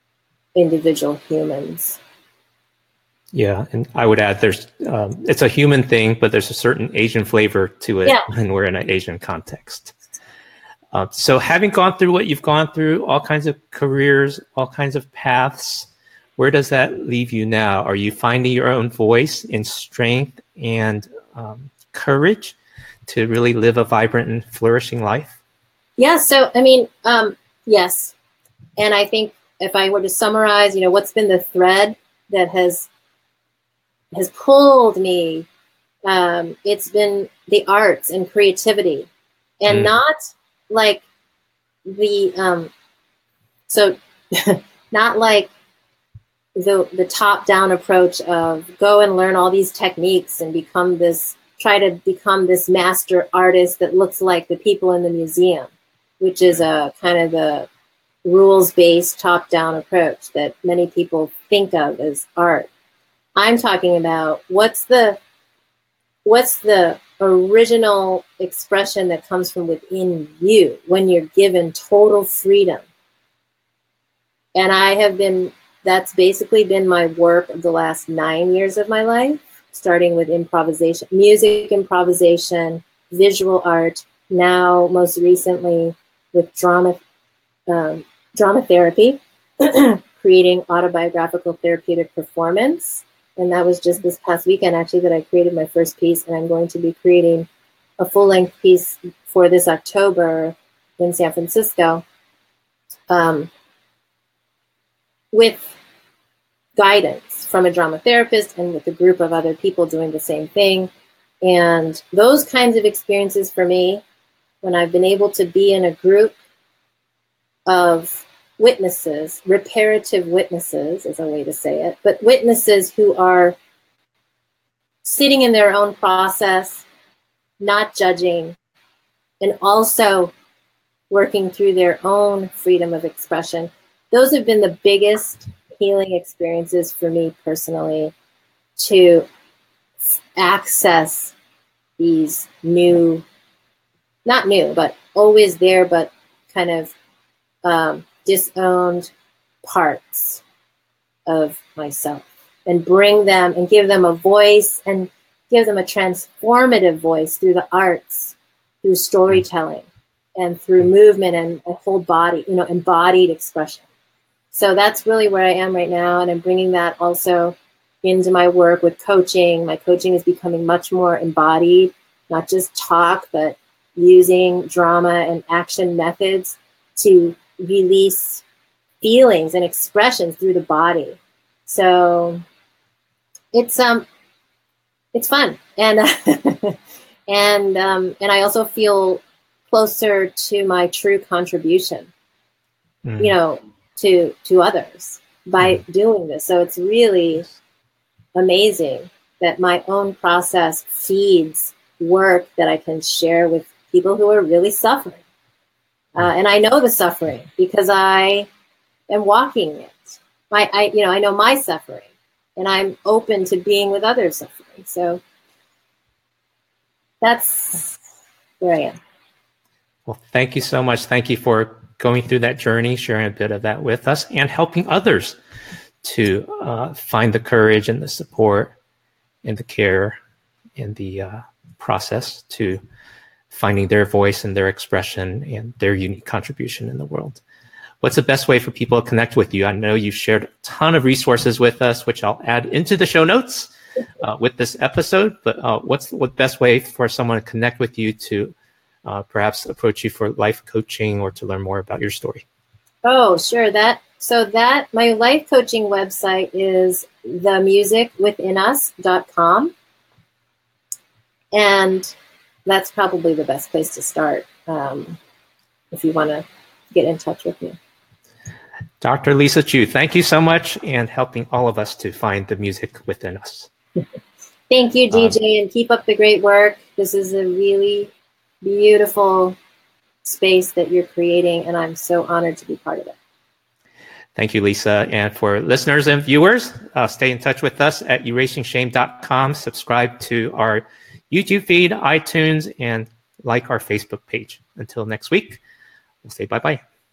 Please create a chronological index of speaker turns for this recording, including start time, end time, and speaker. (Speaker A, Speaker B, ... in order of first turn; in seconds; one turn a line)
Speaker A: 0.5-2.0
Speaker B: 3.3-9.9
Speaker B: 10.9-25.4
Speaker A: 26.0-28.1
Speaker A: 28.8-32.9
Speaker A: 34.1-35.5
Speaker A: 36.0-39.1
Speaker A: 39.6-41.0
Speaker B: 39.7-39.9
Speaker A: 41.8-42.7
Speaker A: 43.7-45.5
Speaker A: 46.5-57.7
Speaker A: 58.2-62.7
Speaker A: 63.4-65.2
Speaker A: 66.2-72.8
Speaker A: 74.5-87.0
Speaker A: 87.7-97.5
Speaker A: 98.0-102.0
Speaker A: 103.1-103.5
Speaker A: 105.3-105.7
Speaker A: 106.8-110.9
Speaker A: 111.4-114.0
Speaker A: 114.6-116.3
Speaker A: 117.7-123.5
Speaker A: 125.0-126.8
Speaker A: 127.6-128.6
Speaker A: 129.4-130.3
Speaker A: 131.1-138.1
Speaker A: 138.8-139.2
Speaker A: 140.3-141.3
Speaker A: 142.0-143.2
Speaker A: 144.2-146.9
Speaker A: 147.6-149.1
Speaker A: 149.6-150.4
Speaker A: 151.3-159.8
Speaker A: 160.4-163.8
Speaker A: 164.5-178.4
Speaker A: 179.0-182.4
Speaker A: 183.5-184.1
Speaker A: 185.1-186.8
Speaker A: 187.3-192.1
Speaker B: 193.0-193.3
Speaker A: 193.2-197.5
Speaker A: 198.3-205.2
Speaker A: 206.1-208.5
Speaker A: 209.1-215.2
Speaker A: 217.2-218.0
Speaker A: 218.6-218.9
Speaker B: 220.1-225.4
Speaker B: 226.0-228.7
Speaker B: 229.4-230.2
Speaker B: 230.8-232.8
Speaker B: 233.5-237.4
Speaker B: 238.0-248.5
Speaker B: 249.0-252.4
Speaker A: 253.0-259.7
Speaker A: 261.5-262.1
Speaker A: 262.6-265.2
Speaker A: 265.9-267.8
Speaker B: 269.0-273.7
Speaker A: 274.7-278.1
Speaker B: 275.1-275.4
Speaker A: 278.6-279.6
Speaker A: 280.2-283.1
Speaker B: 284.3-295.6
Speaker B: 296.2-296.8